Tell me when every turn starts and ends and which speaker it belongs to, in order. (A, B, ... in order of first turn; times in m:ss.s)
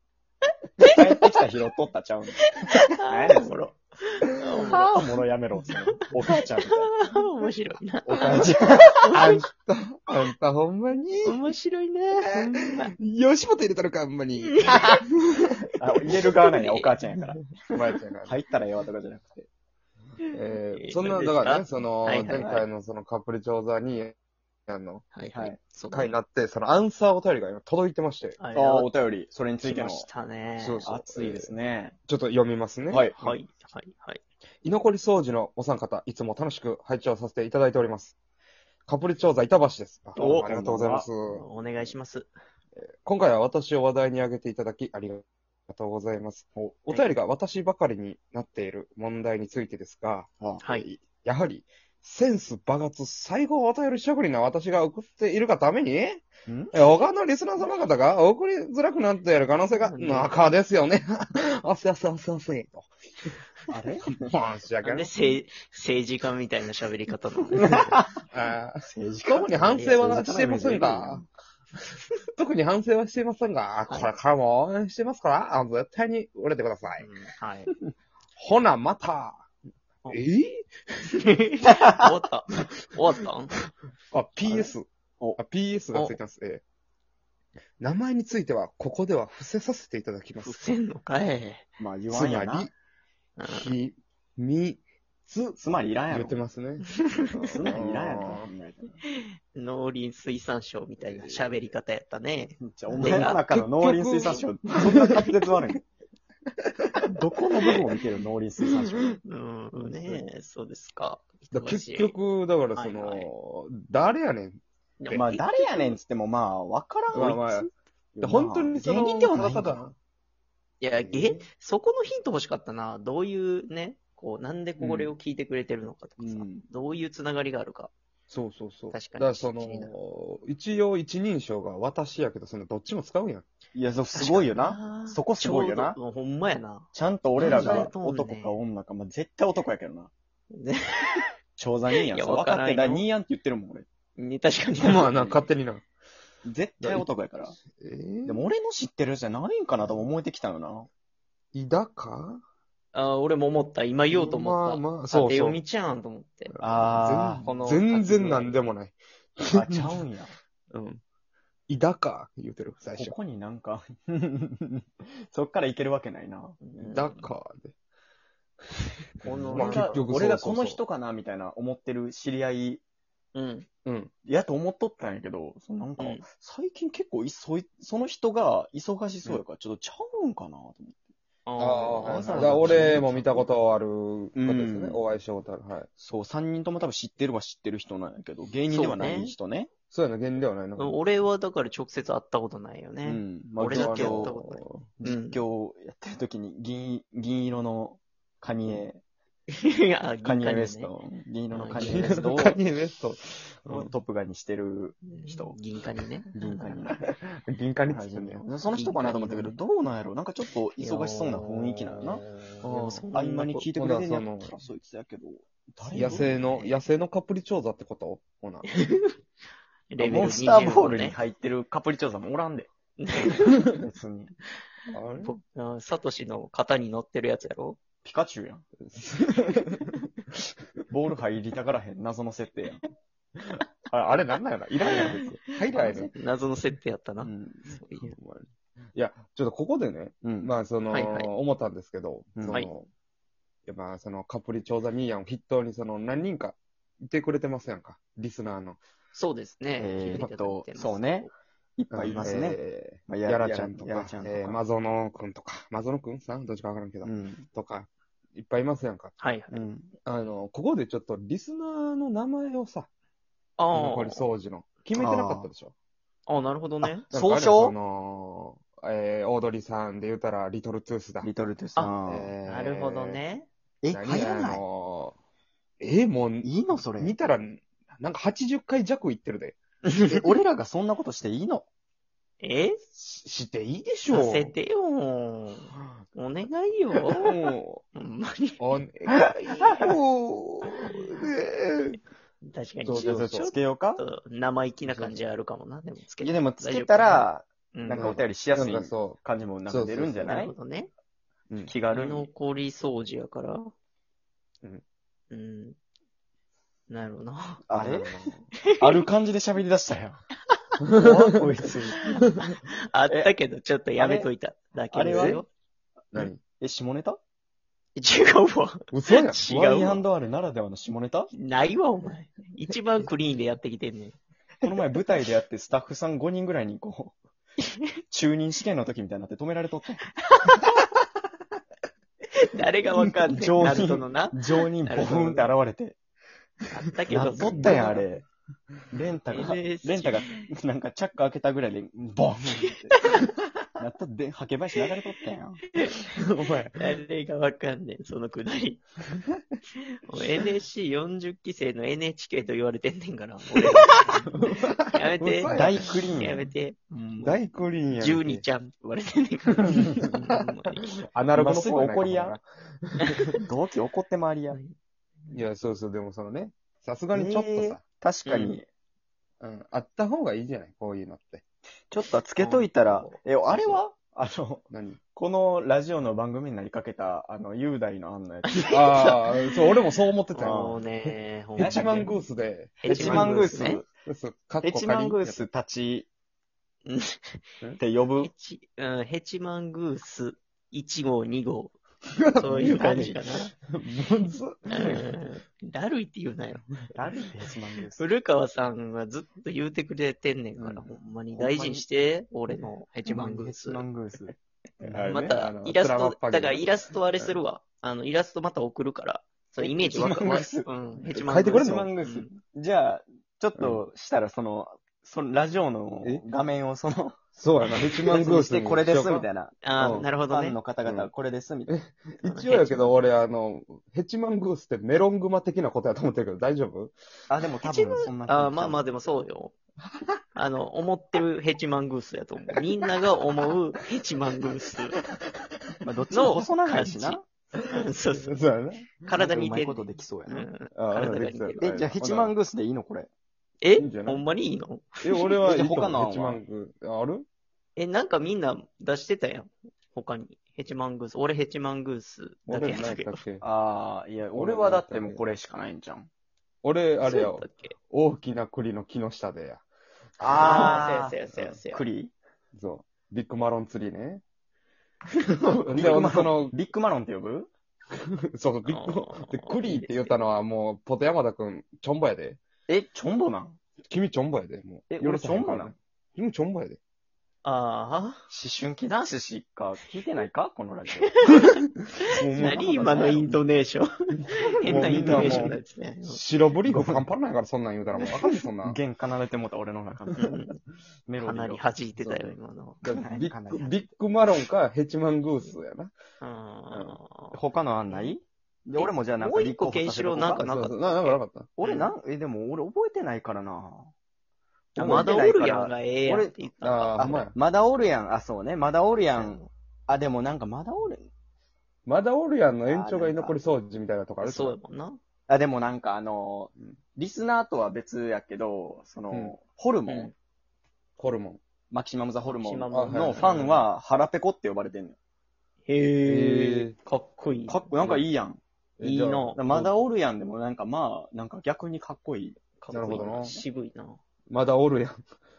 0:00.8-0:01.3 A
0:00.9-0:02.5 B
0:02.4-0:05.1 A
0:03.1-0:03.5 B
0:04.7-0:07.0 B
0:05.7-0:09.4 A
0:08.0-0:08.9 B
0:09.0-0:11.4 C
0:11.2-0:12.9 A
0:12.2-0:16.2 C
0:14.6-0:15.0 A
0:15.8-0:17.6 B
0:16.4-0:17.0 A
0:17.6-0:18.3 C
0:18.2-0:19.5 B
0:20.2-0:22.6 A
0:20.3-0:24.1 C
0:22.3-0:22.6 B
0:24.7-0:25.1 C
0:25.1-0:26.1 A
0:25.2-0:25.6 B
0:25.9-0:28.4 C
0:28.4-0:28.9 A
0:28.5-0:30.1 B
0:29.6-0:30.8 A
0:30.6-0:31.5 C
0:30.8-0:31.9 B
0:32.1-0:33.4 C
0:32.9-0:33.2 B
0:33.2-0:34.2 A
0:34.6-0:38.1 C
0:38.9-0:41.4 C
0:40.2-0:41.1 B
0:41.3-0:42.3 A
0:42.8-0:50.3 C
0:50.4-0:51.0 B
0:51.2-1:02.9 C
0:56.5-0:56.7 B
0:59.7-1:00.4 A
1:03.7-1:04.3 B
1:04.2-1:05.2 C
1:04.8-1:08.0 A
1:07.6-1:08.1 B
1:08.3-1:11.2 C
1:08.8-1:11.2 B
1:09.7-1:10.0 A
1:12.4-1:17.1 C
1:17.0-1:17.7 A
1:18.4-1:19.5 C
1:20.1-1:20.7 C
1:21.2-1:23.6 A
1:24.1-1:26.6 C
1:24.4-1:25.4 B
1:27.8-1:30.7 C
1:30.4-1:31.7 A
1:31.8-1:32.7 B
1:32.1-1:32.7 C
1:33.4-1:33.7 A
1:33.5-1:35.6 C
1:35.6-1:36.4 B
1:36.1-1:36.9 C
1:37.0-1:37.6 A
1:37.4-1:39.0 B
1:37.6-1:38.5 C
1:39.2-1:43.4 A
1:41.0-1:41.7 B
1:42.6-1:45.8 B
1:43.0-1:45.3 C
1:47.1-1:49.2 B
1:49.1-1:52.1 A
1:49.8-1:50.2 B
1:51.5-1:54.6 C
1:52.7-1:53.3 A
1:55.0-1:56.0 A
1:55.1-1:59.8 B
1:57.1-1:57.7 C
1:58.2-2:00.0 C
2:00.8-2:07.9 A
2:00.9-2:01.4 C
2:04.8-2:05.1 B
2:06.2-2:06.6 B
2:08.3-2:13.4 C
2:08.9-2:09.9 A
2:13.7-2:16.0 B
2:14.1-2:18.6 A
2:16.9-2:20.1 B
2:17.4-2:17.9 C
2:20.5-2:21.2 A
2:21.6-2:23.9 B
2:22.0-2:23.1 A
2:24.2-2:25.1 A
2:24.8-2:25.8 C
2:26.4-2:27.6 B
2:26.8-2:27.1 C
2:27.8-2:28.4 C
2:28.2-2:30.9 B
2:31.5-2:32.4 C
2:32.9-2:36.6 A
2:34.1-2:35.6 C
2:36.5-2:39.9 C
2:36.6-2:37.5 B
2:37.4-2:38.6 A
2:39.5-2:40.3 B
2:40.7-2:41.0 C
2:41.7-2:43.2 C
2:43.0-2:46.6 B
2:46.6-2:47.3 A
2:46.8-2:47.7 C
2:49.2-2:50.0 A
2:49.2-2:52.8 B
2:49.5-2:50.8 C
2:53.3-2:53.7 A
2:53.8-2:54.1 C
2:54.2-3:01.0 B
2:56.0-2:56.2 A
3:01.4-3:03.0 A
3:01.6-3:05.9 C
3:02.0-3:03.5 B
3:04.3-3:05.0 B
3:06.0-3:09.7 B
3:08.7-3:09.3 A
3:09.9-3:11.0 C
3:10.8-3:15.4 A
3:13.0-3:14.3 B
3:13.7-3:14.8 C
3:15.0-3:19.0 B
3:19.5-3:20.9 A
3:20.2-3:22.6 B
3:21.5-3:22.3 A
3:21.8-3:23.9 C
3:23.7-3:25.6 B
3:25.0-3:26.9 A
3:26.3-3:27.1 B
3:26.9-3:28.4 C
3:27.9-3:36.4 B
3:28.7-3:29.6 A
3:30.8-3:33.7 A
3:32.7-3:33.1 C
3:33.7-3:34.5 C
3:35.9-3:36.8 A
3:35.9-3:38.6 C
3:38.6-3:39.2 A
3:39.9-3:41.2 A
3:40.0-3:42.7 B
3:43.0-3:43.8 A
3:43.8-3:44.3 B
3:44.9-3:45.3 C
3:45.2-3:47.8 A
3:48.0-3:48.6 B
3:48.8-3:49.9 C
3:50.9-3:52.8 B
3:53.9-3:56.1 C
3:54.8-3:56.1 B
3:55.6-3:58.1 A
3:57.2-3:57.6 B
3:58.0-4:02.9 C
4:00.2-4:00.5 B
4:00.9-4:01.3 A
4:02.4-4:02.6 B
4:03.6-4:08.8 C
4:09.1-4:11.3 A
4:09.8-4:14.6 B
4:11.9-4:19.2 C
4:12.0-4:12.3 A
4:17.0-4:17.5 B
4:19.2-4:19.6 A
4:19.5-4:19.9 B
4:20.0-4:22.9 C
4:23.6-4:24.2 A
4:23.7-4:25.7 C
4:24.9-4:25.5 B
4:26.3-4:27.0 A
4:26.8-4:27.8 B
4:27.1-4:31.3 C
4:31.2-4:32.3 B
4:32.0-4:33.2 C
4:32.4-4:33.5 A
4:33.8-4:34.6 B
4:33.9-4:35.2 C
4:35.8-4:39.6 C
4:36.4-4:37.1 B
4:39.8-4:41.6 B
4:42.4-4:42.8 A
4:42.9-4:44.5 C
4:44.1-4:47.4 A
4:47.2-4:47.8 C
4:47.9-4:48.6 A
4:48.6-4:52.0 C
4:52.4-4:58.2 A
4:52.8-4:53.5 C
4:52.9-4:54.0 B
4:54.8-4:55.2 C
4:56.2-5:00.5 B
4:58.0-5:00.3 C
5:00.2-5:00.9 A
5:01.5-5:01.8 C
5:01.6-5:02.3 B
5:01.9-5:03.7 A
5:05.3-5:05.8 A
5:06.9-5:07.6 A
5:07.7-5:10.2 B
5:07.7-5:08.3 C
5:08.7-5:09.0 A
5:10.9-5:11.2 C
5:10.9-5:12.0 B
5:12.0-5:15.5 A
5:13.1-5:13.3 B
5:14.0-5:14.3 B
5:14.9-5:15.4 B
5:15.0-5:15.4 C
5:16.1-5:16.4 C
5:16.4-5:17.2 B
5:18.0-5:20.0 A
5:18.9-5:19.4 C
5:19.5-5:21.3 B
5:21.3-5:24.2 A
5:24.6-5:27.2 B
5:28.1-5:30.0 B
5:30.3-5:30.6 A
5:32.3-5:35.5 A
5:33.2-5:36.0 B
5:36.7-5:38.0 A
5:37.1-5:38.0 C
5:37.1-5:38.2 B
5:38.9-5:43.0 B
5:39.3-5:40.3 A
5:42.9-5:43.2 A
5:43.7-5:45.7 B
5:46.1-5:46.8 C
5:46.8-5:48.8 A
5:50.0-5:54.3 A
5:53.6-5:56.3 C
5:54.9-6:00.8 A
5:55.5-5:56.5 B
5:57.2-5:58.4 C
5:59.7-6:00.3 C
6:00.8-6:03.3 C
6:01.3-6:02.4 B
6:03.1-6:03.4 A
6:03.4-6:04.6 B
6:05.3-6:07.8 C
6:07.1-6:08.7 B
6:08.2-6:08.6 A
6:09.4-6:11.4 C
6:11.9-6:18.9 B
6:12.4-6:13.2 A
6:13.5-6:13.8 C
6:14.7-6:15.0 C
6:18.5-6:19.7 A
6:18.6-6:25.4 C
6:20.3-6:22.1 A
6:20.4-6:20.8 B
6:21.6-6:22.1 B
6:22.8-6:23.8 A
6:22.8-6:23.9 B
6:24.6-6:26.1 B
6:26.8-6:27.4 A
6:27.8-6:28.3 B
6:28.2-6:31.8 A
6:32.1-6:35.1 C
6:32.4-6:33.5 A
6:34.7-6:36.7 A
6:36.9-6:38.0 B
6:38.0-6:43.8 A
6:40.6-6:41.8 B
6:43.0-6:45.4 B
6:45.0-6:52.3 A
6:45.3-6:47.4 C
6:49.6-6:57.2 B
6:51.1-6:51.9 C
6:57.4-6:59.3 C
6:57.8-6:59.6 B
6:59.6-7:00.6 A
6:59.8-7:00.1 C
7:00.2-7:01.7 B
7:00.8-7:01.1 C
7:01.7-7:06.9 C
7:02.2-7:03.0 A
7:07.3-7:08.8 B
7:07.6-7:09.5 A
7:10.3-7:15.0 A
7:15.8-7:17.2 B
7:16.1-7:17.2 A
7:17.7-7:18.4 A
7:18.1-7:19.3 C
7:19.0-7:21.7 A
7:19.2-7:20.5 B
7:20.7-7:22.4 C
7:21.6-7:23.1 B
7:23.6-7:25.4 A
7:23.8-7:24.2 C
7:25.0-7:27.3 C
7:25.4-7:26.4 B
7:27.8-7:33.2 A
7:32.5-7:33.4 C
7:33.4-7:36.1 B
7:34.3-7:35.2 C
7:36.6-7:39.6 C
7:37.0-7:37.7 A
7:40.2-7:41.2 B
7:40.3-7:41.8 A
7:40.3-7:40.8 C
7:41.7-7:42.1 B
7:42.5-7:44.2 C
7:45.4-7:46.5 C
7:45.7-7:47.5 B
7:48.4-7:52.4 C
7:48.6-7:50.1 A
7:52.7-7:53.6 B
7:53.8-7:56.8 C
7:54.9-7:55.7 B
7:57.4-7:58.2 A
7:58.3-8:01.3 B
8:01.0-8:06.2 A
8:02.0-8:03.2 C
8:02.3-8:03.3 B
8:04.6-8:05.6 B
8:04.6-8:08.8 C
8:06.7-8:07.1 B
8:08.6-8:10.3 B
8:10.2-8:10.6 A
8:11.1-8:13.9 B
8:11.2-8:12.8 A
8:12.8-8:15.9 C
8:16.2-8:17.4 A
8:16.7-8:17.0 C
8:17.3-8:20.4 B
8:18.8-8:21.9 A
8:20.4-8:21.5 C
8:21.6-8:23.9 B
8:24.8-8:26.3 B
8:24.8-8:27.1 A
8:26.6-8:27.3 C
8:27.0-8:31.1 B
8:29.1-8:29.5 A
8:31.8-8:34.6 C
8:32.6-8:33.4 B
8:34.2-8:35.0 A
8:35.3-8:40.1 B
8:39.1-8:39.3 C
8:41.0-8:41.4 C
8:41.7-8:45.0 B
8:42.3-8:43.6 A
8:42.7-8:43.5 C
8:45.6-8:47.8 A
8:46.0-8:46.8 C
8:47.5-8:48.4 B
8:48.8-8:49.4 C
8:48.8-8:49.7 A
8:49.3-8:52.4 B
8:52.6-8:54.0 A
8:52.7-8:53.4 C
8:54.3-8:55.0 C